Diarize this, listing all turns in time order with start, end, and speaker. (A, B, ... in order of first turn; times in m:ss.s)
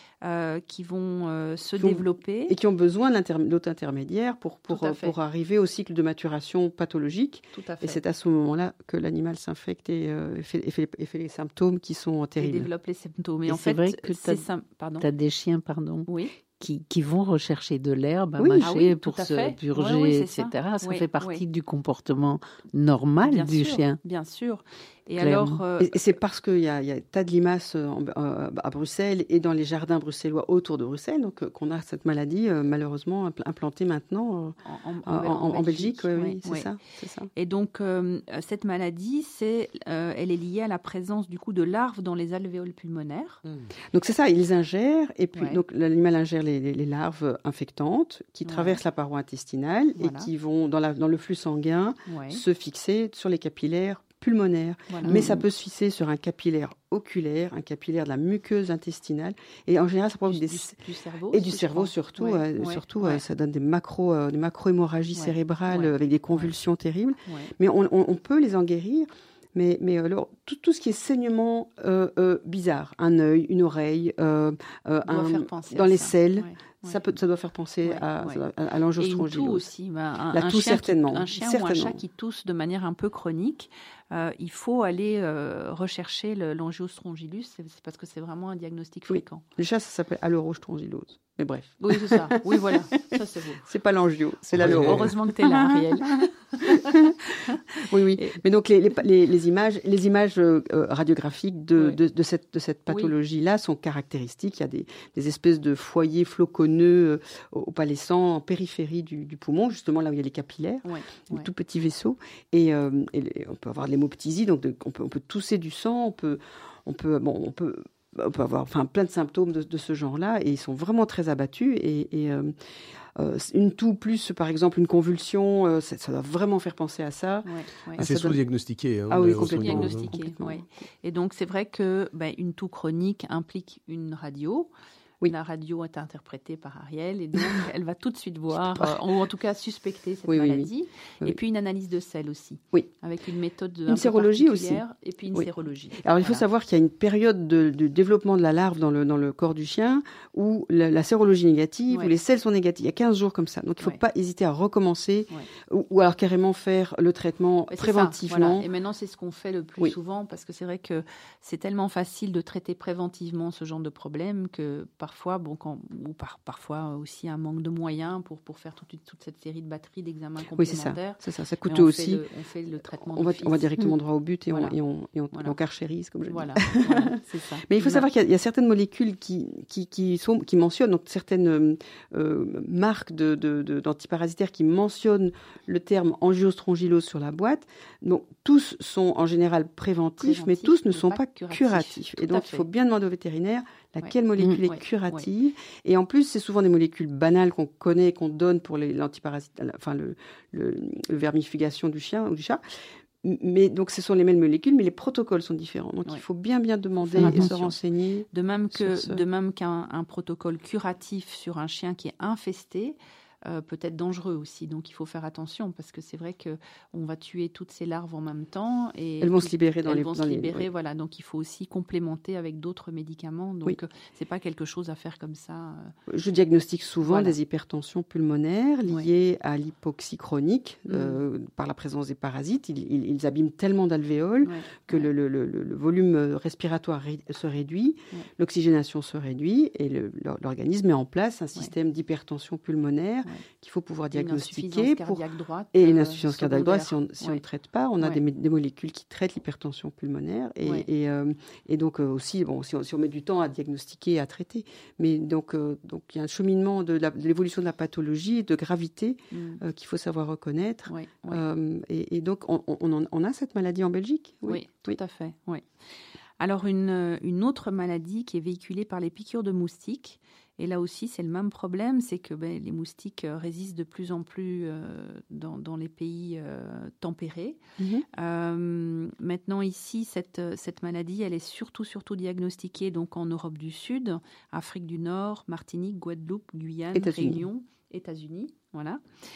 0:00.2-0:02.6 A
0:01.8-0:12.7 B
0:04.7-0:05.1 A
0:07.5-0:08.0 A
0:12.4-0:15.1 A
0:13.5-0:14.4 C
0:15.0-0:24.0 C
0:16.1-0:16.3 A
0:18.4-0:18.7 B
0:18.6-0:21.4 A
0:23.2-0:26.0 A
0:25.2-0:25.6 C
0:25.8-0:37.3 B
0:34.6-0:36.7 A
0:37.3-0:43.4 A
0:43.9-1:00.8 B
0:45.3-0:45.6 A
0:48.4-0:48.8 A
0:50.0-0:50.3 A
0:52.1-0:52.4 A
0:54.9-0:55.3 A
0:55.0-0:55.4 C
1:00.2-1:03.2 A
1:01.3-1:19.7 B
1:05.1-1:06.5 A
1:07.2-1:07.5 A
1:15.0-1:17.0 A
1:17.8-1:18.4 A
1:19.0-1:29.4 A
1:20.3-1:22.0 B
1:29.1-1:32.8 B
1:31.8-1:33.6 A
1:33.6-1:37.1 B
1:34.6-1:38.4 A
1:34.6-1:35.1 D
1:37.8-2:02.5 B
1:42.9-1:43.1 A
1:50.8-1:51.5 A
2:03.2-2:08.4 B
2:07.4-2:08.0 A
2:08.0-2:10.1 D
2:09.1-2:10.6 B
2:09.2-2:14.7 A
2:15.2-2:26.4 A
2:18.5-2:19.0 B
2:20.3-2:20.7 B
2:23.9-2:24.8 B
2:25.3-2:38.6 B
2:37.7-2:53.7 A
2:50.6-2:52.2 B
2:52.9-3:22.6 B
2:56.2-2:58.1 A
3:10.2-3:12.7 A
3:14.6-3:15.3 A
3:23.2-3:29.2 B
3:27.0-3:27.7 A
3:27.2-3:27.5 C
3:28.3-3:45.9 A
3:39.2-3:40.7 B
3:46.1-4:25.0 B
3:47.0-3:47.4 A
3:50.9-3:51.2 A
3:54.4-3:55.1 A
4:04.1-4:07.4 A
4:19.3-4:19.6 A
4:20.9-4:21.4 A
4:24.4-4:25.6 A
4:26.4-4:37.6 A
4:37.8-4:38.0 B
4:38.1-4:49.0 A
4:46.9-4:47.4 B